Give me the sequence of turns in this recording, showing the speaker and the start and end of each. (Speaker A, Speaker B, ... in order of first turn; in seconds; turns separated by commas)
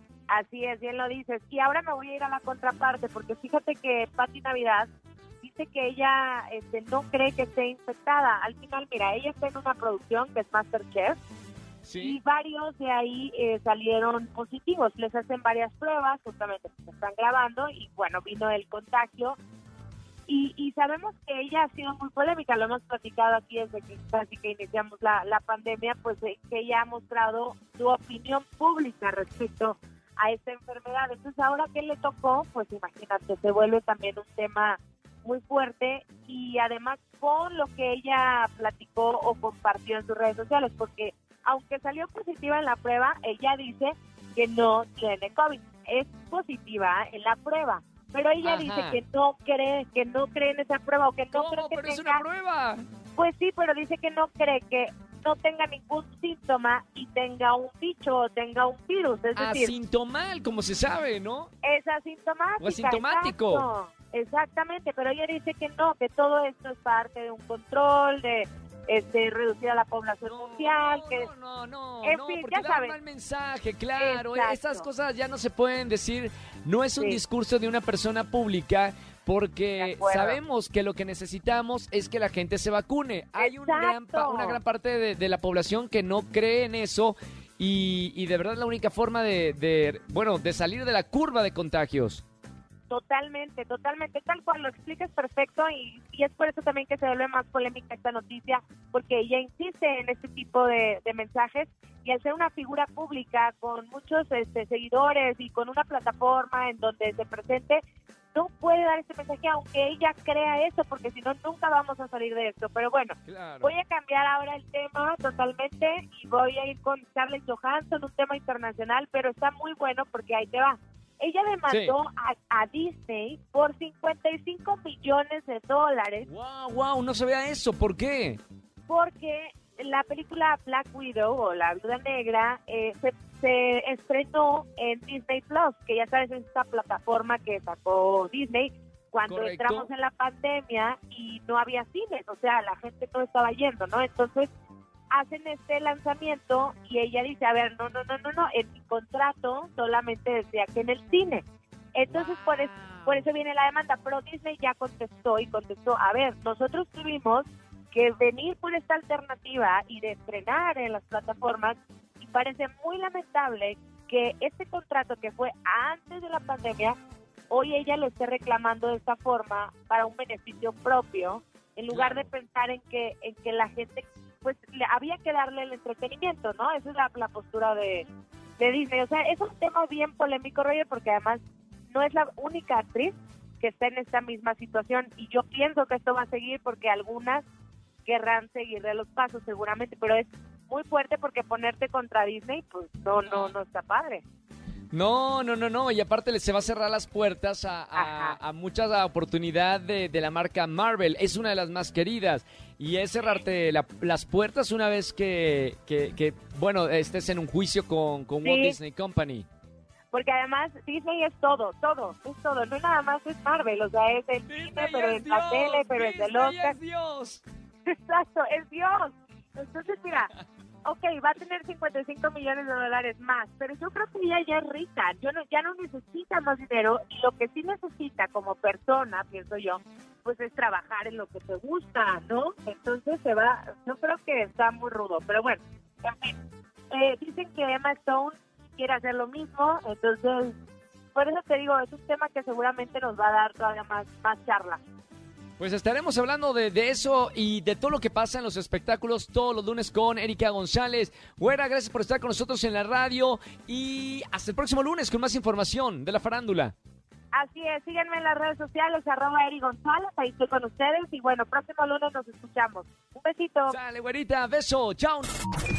Speaker A: 0.3-4.9, Speaker A: 5.4-11.2, Speaker B: 11.8-12.2, Speaker A: 12.0-19.4, Speaker A: 20.3-52.2, Speaker B: 48.4-49.0, Speaker B: 51.3-52.8, Speaker A: 53.2-59.7, Speaker B: 59.4-61.5, Speaker A: 61.6-71.3, Speaker B: 62.6-63.7, Speaker B: 70.3-92.2, Speaker A: 72.0-73.0, Speaker A: 74.0-74.9, Speaker A: 79.8-80.4, Speaker A: 83.4-84.6, Speaker A: 92.9-107.8, Speaker A: 108.3-126.3, Speaker B: 113.3-113.8, Speaker B: 121.7-122.0, Speaker B: 126.3-128.4, Speaker A: 128.9-144.5, Speaker B: 139.3-139.9, Speaker A: 145.1-167.0, Speaker B: 152.1-153.2, Speaker A: 167.5-187.4, Speaker B: 171.9-172.3, Speaker A: 188.1-194.2, Speaker B: 193.2-193.6, Speaker B: 194.9-209.5, Speaker A: 197.9-198.4, Speaker A: 208.4-208.8, Speaker A: 210.1-216.8, Speaker B: 214.5-217.4, Speaker A: 217.9-220.3, Speaker B: 220.1-220.4, Speaker A: 220.8-236.4, Speaker A: 236.9-240.6, Speaker A: 241.1-244.8, Speaker B: 245.6-256.8, Speaker A: 257.3-263.8, Speaker B: 263.7-265.3